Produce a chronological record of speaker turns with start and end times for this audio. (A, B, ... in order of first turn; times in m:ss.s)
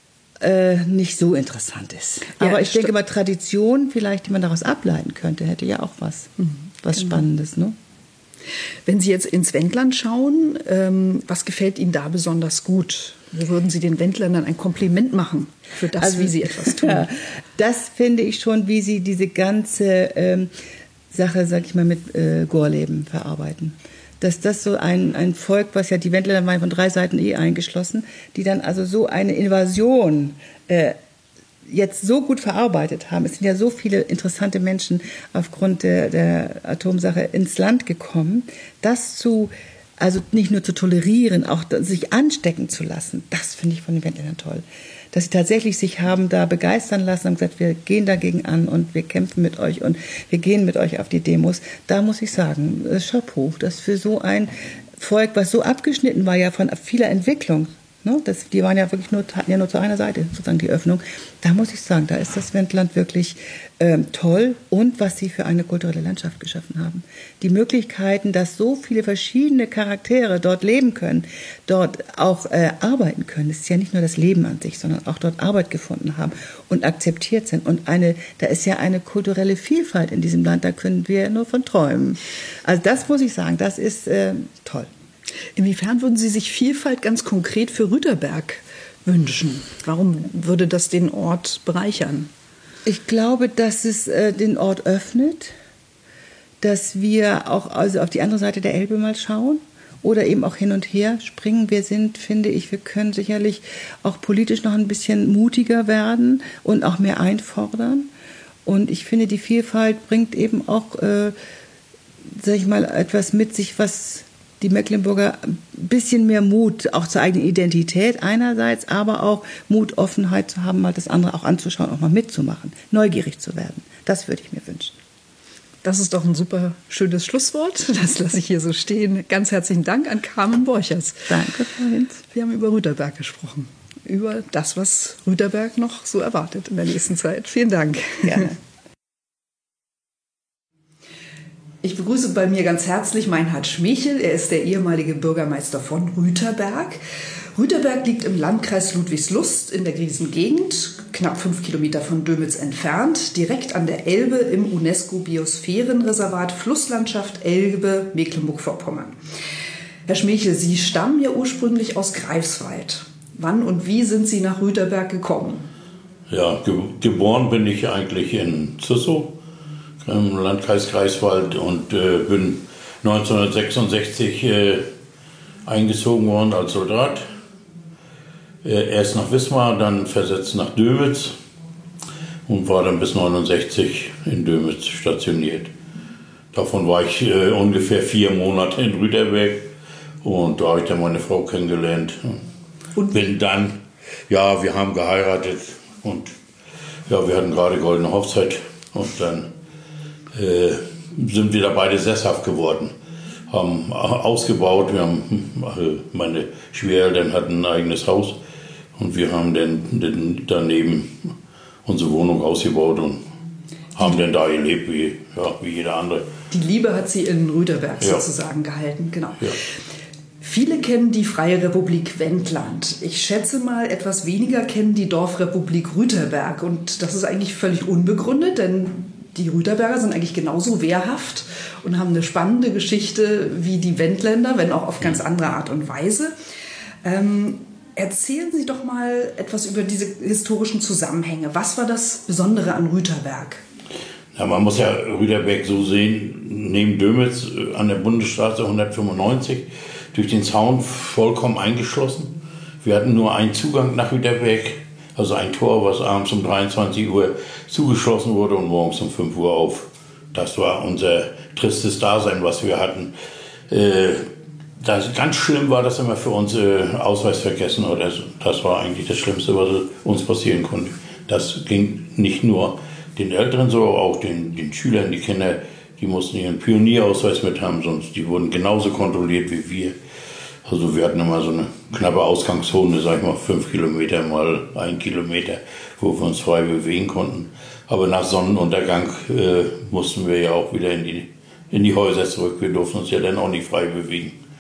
0:00.4-0:06.3 A
0:02.4-0:02.9 B
0:06.4-0:07.2 B
0:06.8-0:07.8 A
0:08.9-0:17.1 B
0:16.0-0:20.5 A
0:21.1-0:31.0 A
0:31.6-1:24.9 A
1:25.6-1:32.3 B
1:32.9-1:35.5 A
1:36.6-1:48.1 A
1:48.6-1:51.4 A
1:52.3-2:05.0 A
2:05.8-2:11.3 B
2:11.3-2:12.2 A
2:12.3-2:18.6 B
2:18.2-2:18.5 A
2:21.8-2:27.0 B
2:27.6-2:39.2 B
2:40.1-2:45.7 B
2:46.3-2:49.4 C
2:50.0-2:54.9 C
2:55.7-2:57.3 C
2:58.6-3:01.4 C
3:02.5-3:05.7 C
3:06.5-3:09.7 C
3:10.2-3:12.4 C
3:13.1-3:16.4 C
3:17.1-3:19.5 C
3:20.3-3:22.9 C
3:23.5-3:28.4 C
3:29.0-3:31.3 C
3:31.8-3:33.2 C
3:34.0-3:36.3 C
3:36.5-3:39.5 B
3:38.0-3:38.3 C
3:40.4-3:56.3 B
3:57.0-4:03.6 B
4:04.3-4:23.1 C
4:23.7-4:24.3 C
4:24.8-4:40.0 C
4:40.6-4:54.4 C